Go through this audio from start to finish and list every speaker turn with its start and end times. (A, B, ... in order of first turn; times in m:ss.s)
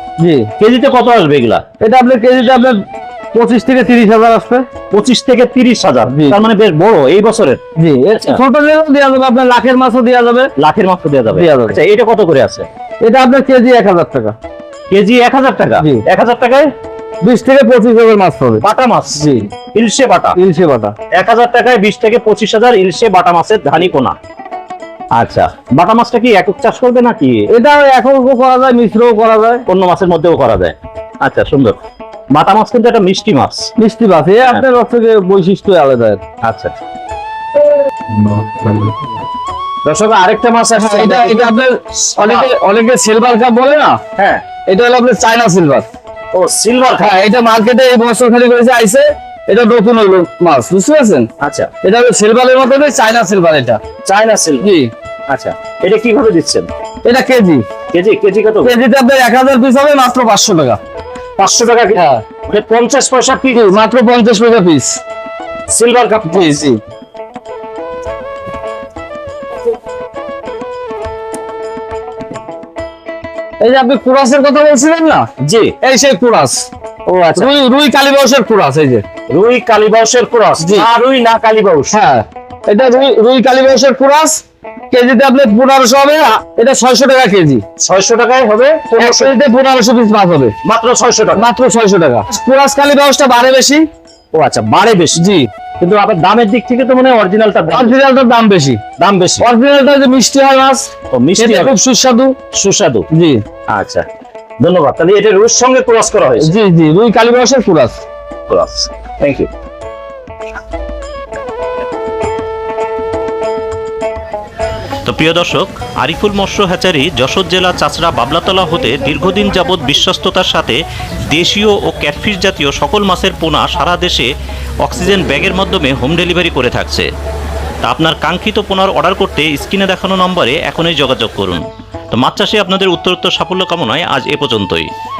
0:00.2-0:00.5 A
0:00.6-0:01.6 B
0:01.8-0:02.8 A
0:03.3-0:04.6 A
0:04.9-0:07.6 B
0:06.1-0:06.4 A
0:07.8-0:10.5 A
0:08.1-0:08.4 B
0:10.6-0:12.7 B
0:11.3-0:11.8 A
0:13.0-0:14.3 A
0:14.9-0:16.7 B
0:17.2-0:18.6 A
0:18.6-0:19.2 B
0:19.2-0:19.5 A
0:19.7-0:20.3 B
0:20.4-0:20.9 A
0:21.1-0:24.1 B
0:25.2-0:27.4 B
0:27.5-0:29.6 A
0:29.7-0:31.7 B
0:32.3-0:33.7 B
0:33.8-0:36.2 A
0:36.4-0:36.7 B
0:38.2-0:38.9 A
0:39.8-0:41.6 B
0:40.8-0:44.0 A
0:42.1-0:42.5 B
0:44.2-0:44.4 B
0:44.7-0:45.8 A
0:46.3-0:47.2 B
0:47.0-0:51.3 A
0:51.4-0:51.7 B
0:51.8-0:53.8 A
0:54.0-0:54.6 B
0:54.6-0:54.9 A
0:55.3-0:56.7 B
0:57.0-0:57.6 A
0:57.9-0:58.7 B
0:58.6-1:00.8 A
1:01.4-1:03.7 B
1:01.9-1:02.2 A
1:03.5-1:05.0 A
1:05.7-1:06.5 B
1:06.3-1:06.8 A
1:13.6-1:15.3 A
1:15.4-1:15.7 B
1:15.8-1:16.7 A
1:17.0-1:17.5 B
1:17.3-1:19.0 A
1:19.3-1:22.0 B
1:20.6-1:20.9 A
1:21.9-1:27.6 A
1:27.8-1:29.3 B
1:29.0-1:30.5 A
1:30.6-1:31.4 B
1:31.3-1:33.8 A
1:34.3-1:35.2 B
1:35.2-1:35.5 A
1:35.8-1:38.0 B
1:37.7-1:38.8 A
1:39.0-1:39.4 B
1:39.4-1:42.3 A
1:41.1-1:41.8 B
1:42.5-1:43.1 B
1:43.1-1:43.4 A
1:43.7-1:44.0 B
1:44.6-1:46.5 B
1:46.4-1:48.0 A
1:48.5-1:49.5 B
1:55.0-2:04.3 C
2:04.8-2:07.1 C
2:07.8-2:14.9 C